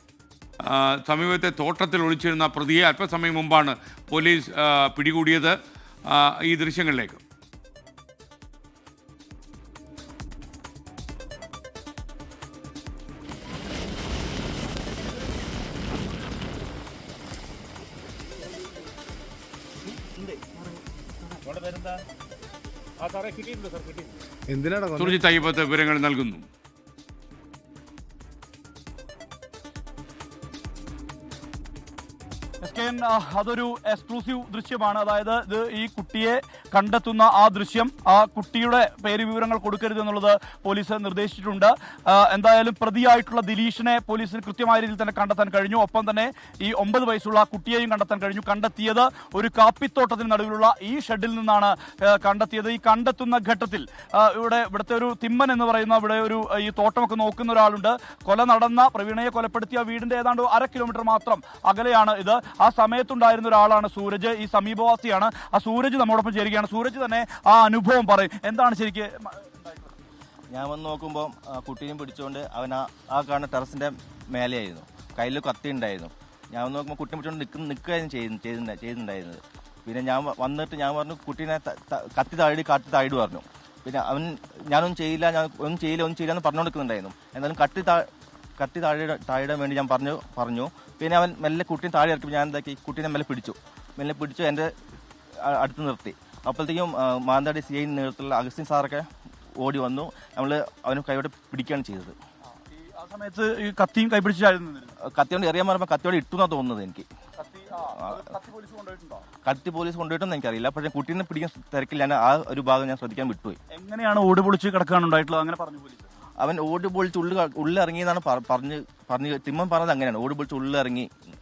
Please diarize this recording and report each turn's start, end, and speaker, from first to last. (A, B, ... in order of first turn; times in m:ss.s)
0:00.6-0:07.2 A
0:21.3-0:21.9 B
0:23.0-0:25.2 B
0:25.0-0:26.4 A
0:32.6-1:09.9 C
1:10.5-1:34.7 D
1:35.4-1:42.1 D
1:42.5-1:44.9 C
1:45.0-1:47.0 D
1:47.4-1:49.2 C
1:49.4-1:53.6 D
1:53.7-1:56.0 C
1:56.4-2:01.1 D